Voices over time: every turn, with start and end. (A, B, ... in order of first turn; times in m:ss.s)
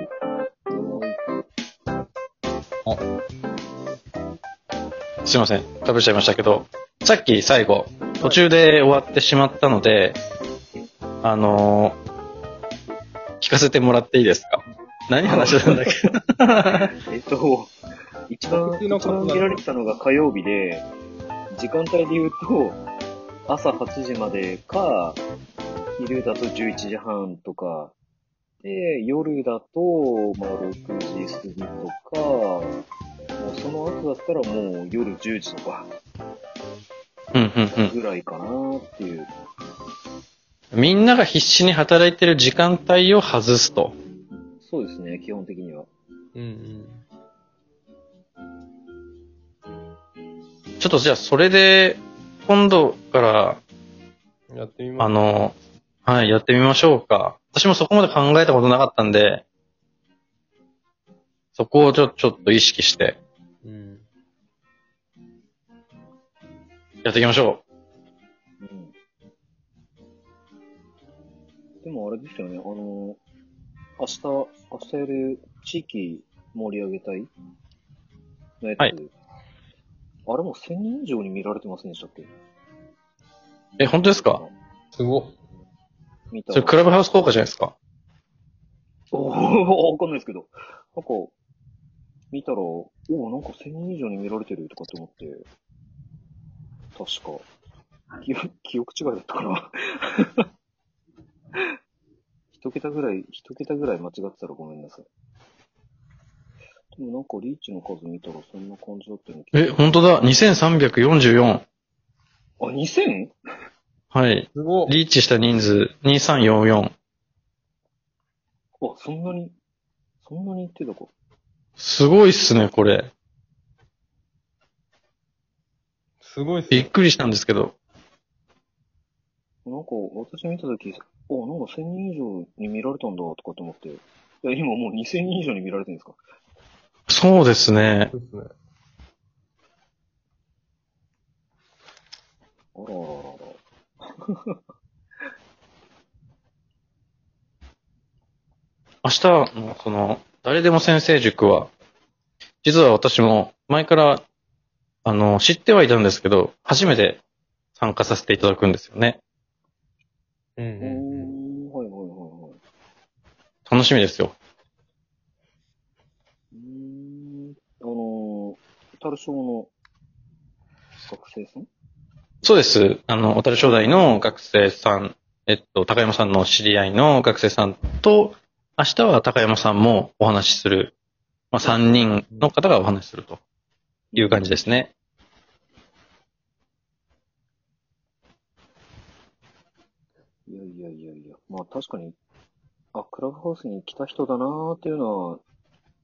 0:00.7-0:01.4 A
0:05.2-0:10.2 B
0:11.2-0:12.0 B
0:13.4-0:16.9 B
0:15.2-0:15.9 A
0:17.1-0:17.7 A
0:18.3-0:20.9 A
0:18.5-0:19.6 C
0:21.5-0:22.8 A
0:23.5-0:25.2 A
0:26.0-0:27.9 A
0:28.6-0:32.8 A
0:33.4-0:35.9 A
0:37.3-0:37.9 B
0:37.8-0:39.3 A
0:40.7-0:43.9 B
0:44.6-0:45.9 A
0:46.3-0:47.0 C
0:50.8-0:53.6 B
0:54.5-0:55.1 C
0:55.0-0:59.4 B
1:01.6-1:03.2 B
1:03.6-1:04.0 C
1:07.0-1:07.6 B
1:08.6-1:08.9 A
1:11.8-1:13.2 A
1:14.0-1:17.3 A
1:18.6-1:19.1 A
1:20.3-1:22.3 A
1:23.8-1:24.4 B
1:24.1-1:24.5 A
1:24.9-1:25.3 C
1:26.3-1:26.9 A
1:26.5-1:27.7 B
1:29.1-1:31.3 A
1:32.3-1:35.5 A
1:36.9-1:37.4 A
1:38.2-1:40.3 A
1:42.5-1:45.1 A
1:46.9-1:49.8 A
1:49.5-1:51.6 B
1:52.6-1:53.3 A
1:54.1-1:56.9 B
1:54.5-1:54.9 C
1:58.8-1:59.5 A
2:00.2-2:01.1 A
2:01.8-2:03.1 B
2:06.2-2:06.9 C
2:06.7-2:07.8 B
2:09.6-2:16.2 A
2:17.1-2:18.1 B
2:18.1-2:18.5 C
2:22.7-2:23.6 A
2:29.0-2:31.7 B
2:32.6-2:34.2 B
2:35.0-2:37.2 B
2:37.8-2:39.2 B
2:40.6-2:41.3 C
2:40.8-2:42.6 A
2:43.7-2:44.3 B
2:46.5-2:49.7 A
2:51.0-2:51.7 A
2:52.4-3:00.9 B
3:01.5-3:03.4 B
3:01.6-3:02.1 A
3:04.1-3:04.6 A
3:04.2-3:04.9 B
3:10.5-3:12.2 A
3:12.9-3:15.4 A